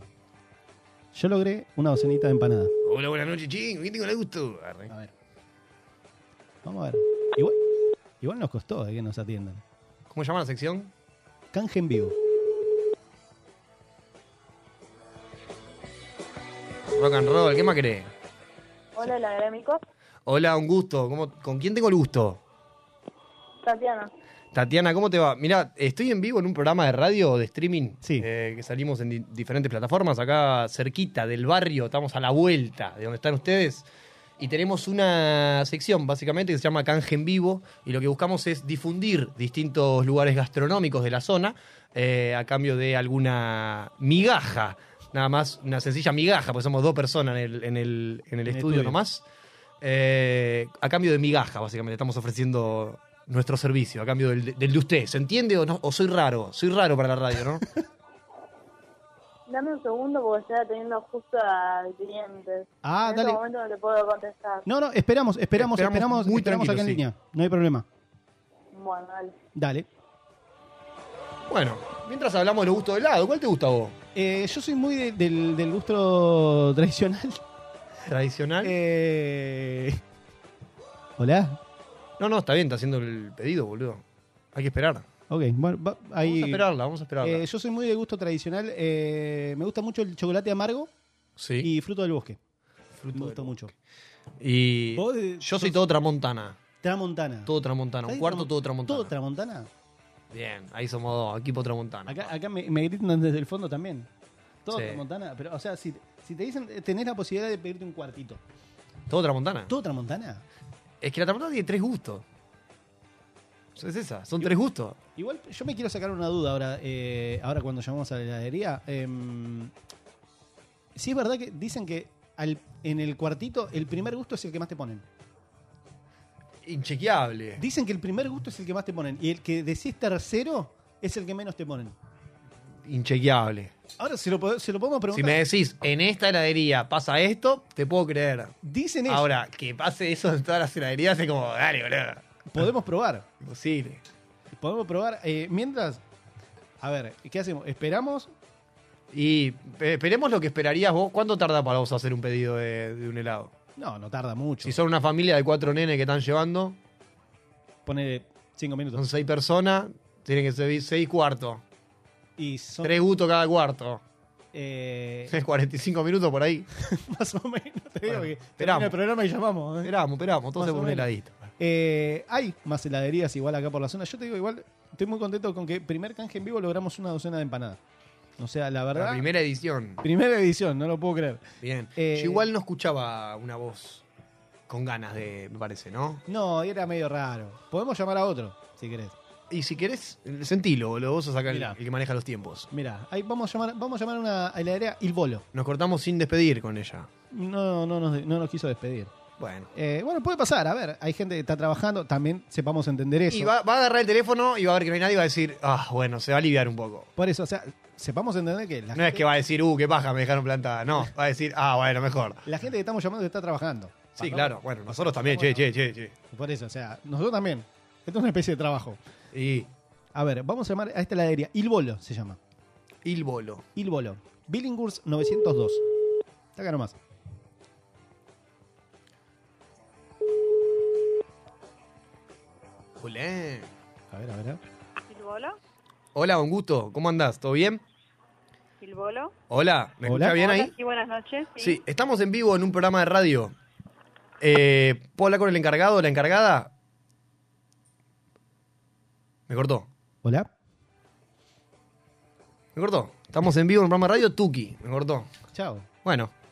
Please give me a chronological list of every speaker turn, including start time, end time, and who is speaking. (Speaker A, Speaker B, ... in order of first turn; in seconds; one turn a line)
Speaker A: 1.1-2.7
Speaker B: 2.8-4.9
Speaker A: 6.6-7.6
Speaker A: 8.2-9.6
Speaker B: 10.1-10.9
Speaker A: 11.5-12.1
Speaker B: 16.9-18.1
Speaker C: 18.9-19.8
Speaker B: 20.2-22.4
Speaker C: 23.6-24.1
Speaker B: 24.5-33.9
Speaker B: 34.4-49.2
Speaker A: 48.5-49.0
Speaker B: 49.8-57.6
Speaker C: 59.5-64.7
Speaker A: 62.8-63.4
Speaker A: 64.6-67.8
Speaker B: 65.5-67.0
Speaker C: 68.7-69.3
Speaker A: 69.5-69.9
Speaker B: 71.5-74.0
Speaker A: 74.1-77.4
Speaker B: 78.0-78.7
Speaker A: 78.6-80.0
Speaker A: 81.2-81.6
Speaker B: 82.2-85.0
Speaker A: 85.3-86.7
Speaker B: 86.2-87.4
Speaker A: 87.2-90.9
Speaker B: 91.4-91.7
Speaker A: 91.6-92.4
Speaker B: 93.0-93.6
Speaker A: 93.1-93.7
Speaker B: 94.4-96.6
Speaker A: 95.0-95.8
Speaker A: 96.8-97.5
Speaker B: 97.5-99.1
Speaker A: 98.0-99.7
Speaker B: 100.3-102.3
Speaker A: 102.1-104.1
Speaker A: 104.7-108.4
Speaker B: 104.7-105.0
Speaker B: 109.1-109.7
Speaker A: 109.7-110.4
Speaker B: 111.0-112.2
Speaker B: 113.8-115.0
Speaker A: 115.2-119.7
Speaker A: 121.0-125.0
Speaker B: 126.6-127.6
Speaker A: 127.6-131.9
Speaker B: 132.8-133.7
Speaker A: 134.0-135.4
Speaker B: 135.1-138.5
Speaker A: 138.6-139.3
Speaker B: 139.1-142.2
Speaker A: 142.5-143.3
Speaker B: 143.4-144.0
Speaker A: 144.6-146.0
Speaker A: 146.8-148.3
Speaker B: 149.1-153.5
Speaker A: 153.8-154.8
Speaker B: 154.6-156.8
Speaker A: 157.8-159.0
Speaker B: 158.9-161.6
Speaker A: 162.4-163.0
Speaker B: 162.8-164.0
Speaker A: 164.5-165.3
Speaker B: 165.3-166.7
Speaker A: 166.8-169.9
Speaker B: 168.1-168.9
Speaker B: 169.8-171.5
Speaker A: 170.6-171.1
Speaker A: 171.6-177.8
Speaker A: 178.4-179.2
Speaker B: 178.9-180.0
Speaker A: 180.0-182.5
Speaker B: 181.6-184.0
Speaker B: 184.7-186.2
Speaker A: 186.3-189.1
Speaker B: 189.5-192.7
Speaker A: 191.5-191.8
Speaker A: 192.7-195.4
Speaker B: 195.5-197.1
Speaker A: 197.3-199.1
Speaker B: 199.4-199.7
Speaker A: 199.7-203.5
Speaker B: 203.3-207.1
Speaker A: 207.2-209.2
Speaker B: 208.9-212.4
Speaker A: 212.4-215.7
Speaker B: 214.2-216.1
Speaker A: 216.3-219.0
Speaker B: 219.3-219.7
Speaker A: 220.1-222.4
Speaker B: 223.0-223.6
Speaker A: 223.8-225.8
Speaker A: 226.6-227.0
Speaker B: 233.0-233.7
Speaker A: 234.1-234.6
Speaker D: 235.1-235.5
Speaker B: 236.1-237.8
Speaker D: 238.8-239.3
Speaker B: 239.5-240.7
Speaker A: 240.0-240.4
Speaker D: 240.4-241.7
Speaker B: 241.6-243.5
Speaker B: 244.4-246.7
Speaker B: 249.5-249.9
Speaker A: 250.2-250.5
Speaker B: 252.7-255.3
Speaker A: 255.5-255.9
Speaker B: 256.0-256.3